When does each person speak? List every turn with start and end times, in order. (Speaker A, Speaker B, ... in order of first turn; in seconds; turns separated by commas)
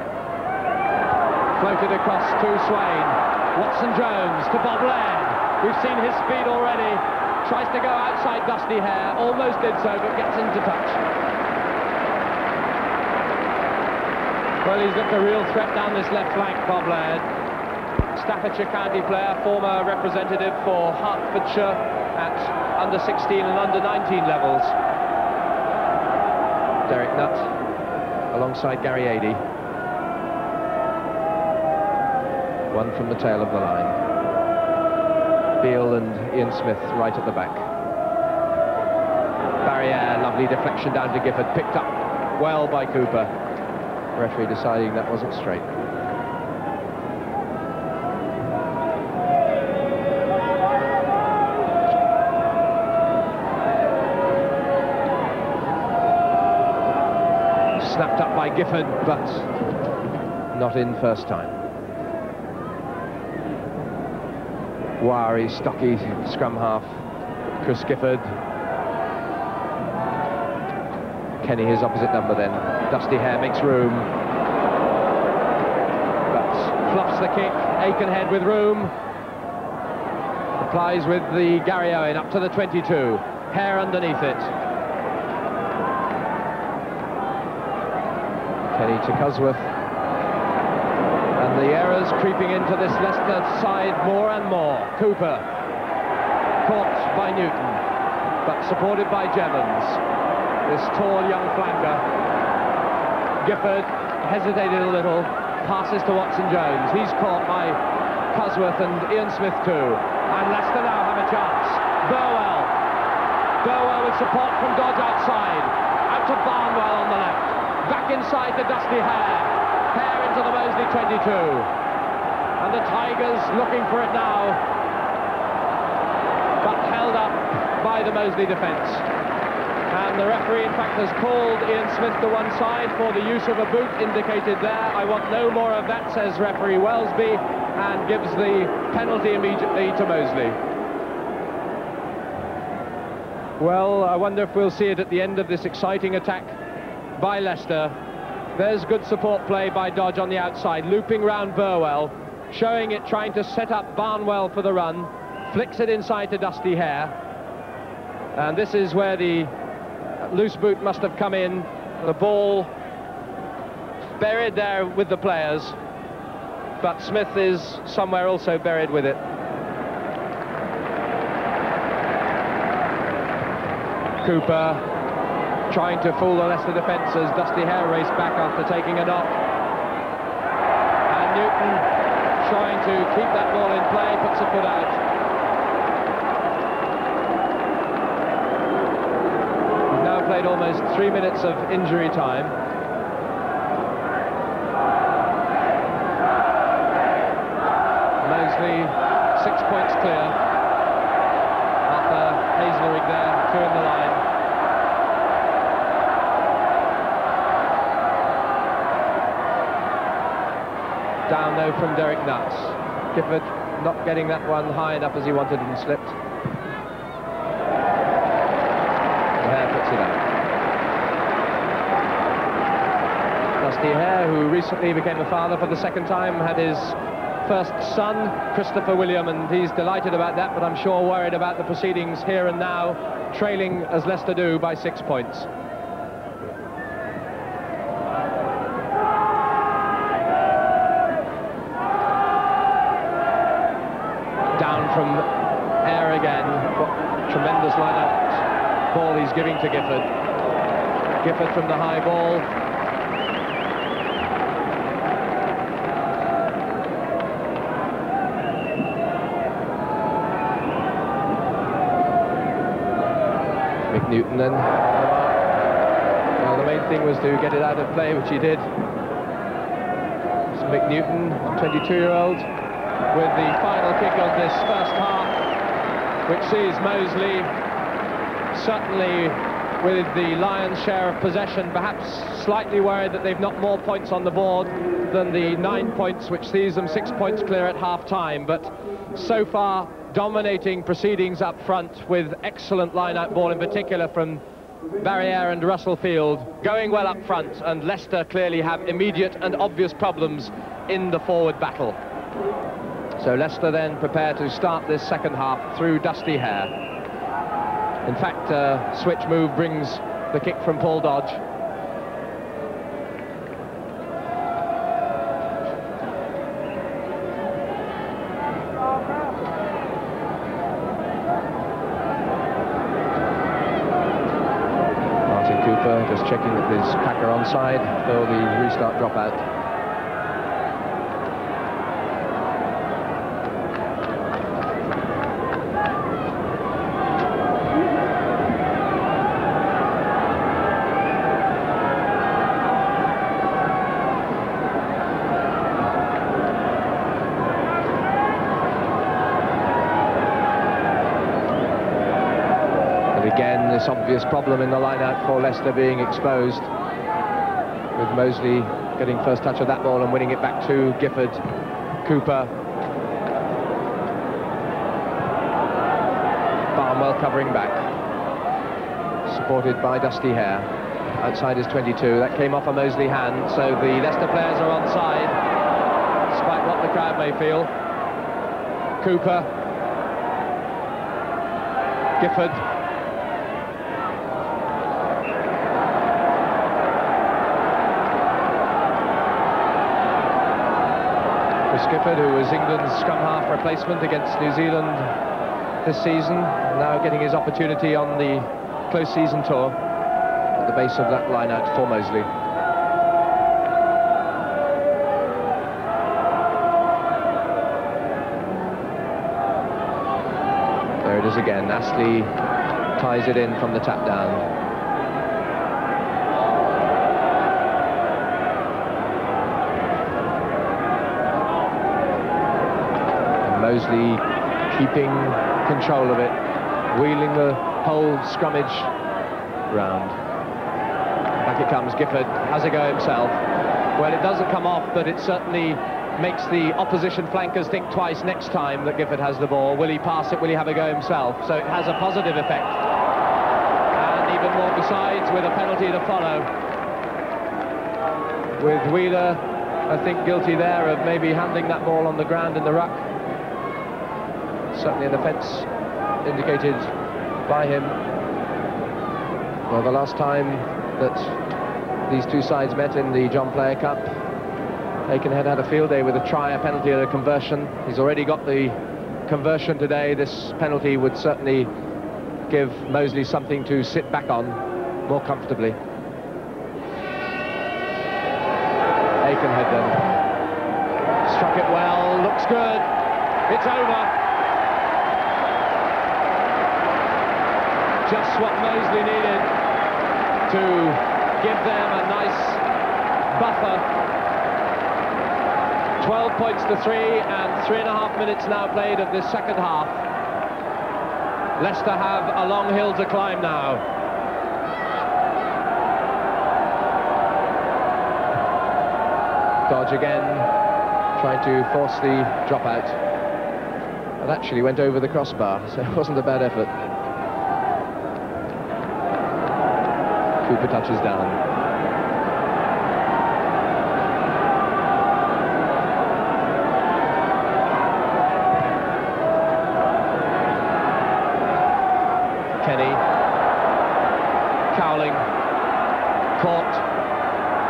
Speaker A: 1.6-11.0, Speaker A: 14.6-17.2, Speaker A: 18.1-24.8, Speaker A: 26.9-27.5, Speaker A: 28.3-29.4, Speaker A: 32.7-34.0, Speaker A: 35.6-37.7, Speaker A: 39.6-43.3, Speaker A: 44.1-45.7, Speaker A: 57.8-59.5, Speaker A: 60.5-61.6, Speaker A: 65.0-67.0, Speaker A: 67.6-68.3, Speaker A: 71.4-74.1, Speaker A: 76.3-78.9, Speaker A: 80.6-84.5, Speaker A: 88.7-89.7, Speaker A: 91.4-95.4, Speaker A: 96.6-97.8, Speaker A: 98.4-100.0, Speaker A: 100.6-102.0, Speaker A: 103.4-107.8, Speaker A: 108.3-112.7, Speaker A: 113.6-121.7, Speaker A: 122.6-124.6, Speaker A: 126.6-129.1, Speaker A: 129.9-140.6, Speaker A: 143.6-146.5, Speaker A: 147.2-147.9, Speaker A: 148.6-157.1, Speaker A: 158.3-159.5, Speaker A: 160.2-162.7, Speaker A: 164.2-165.8, Speaker A: 166.8-169.2, Speaker A: 174.2-174.8, Speaker A: 175.7-179.4, Speaker A: 181.1-181.9, Speaker A: 182.4-185.0, Speaker A: 189.9-192.6, Speaker A: 198.2-200.3, Speaker A: 201.8-204.2, Speaker A: 211.3-216.2, Speaker A: 219.4-220.2, Speaker A: 223.6-235.5, Speaker A: 244.6-245.3, Speaker A: 245.8-250.1, Speaker A: 251.2-252.5, Speaker A: 263.9-265.4, Speaker A: 266.4-268.7, Speaker A: 270.5-272.5, Speaker A: 273.1-275.4, Speaker A: 276.3-277.5, Speaker A: 278.5-294.4, Speaker A: 295.0-302.0, Speaker A: 303.2-306.7, Speaker A: 308.0-311.4, Speaker A: 325.2-329.4, Speaker A: 353.1-356.7, Speaker A: 357.9-361.4, Speaker A: 362.0-362.5, Speaker A: 366.8-367.8, Speaker A: 369.2-370.7, Speaker A: 371.2-375.4, Speaker A: 376.3-377.7, Speaker A: 379.0-379.5, Speaker A: 382.2-382.6, Speaker A: 391.7-395.1, Speaker A: 395.8-399.8, Speaker A: 400.6-402.3, Speaker A: 411.0-412.3, Speaker A: 412.9-414.5, Speaker A: 423.4-426.4, Speaker A: 426.9-428.9, Speaker A: 429.7-430.2, Speaker A: 431.4-433.4, Speaker A: 433.9-442.8, Speaker A: 443.9-446.5, Speaker A: 448.6-453.1, Speaker A: 454.7-455.7, Speaker A: 456.2-456.9, Speaker A: 457.5-458.0, Speaker A: 459.7-461.4, Speaker A: 462.1-464.1, Speaker A: 465.1-471.7, Speaker A: 472.5-475.8, Speaker A: 479.2-480.0, Speaker A: 481.2-482.9, Speaker A: 483.5-484.1, Speaker A: 488.1-489.5, Speaker A: 490.5-492.6, Speaker A: 493.3-493.8, Speaker A: 496.0-500.0, Speaker A: 501.6-503.8, Speaker A: 509.7-510.5, Speaker A: 511.2-513.0, Speaker A: 514.2-516.7, Speaker A: 520.4-521.4, Speaker A: 532.6-533.0, Speaker A: 534.7-535.3, Speaker A: 536.4-536.9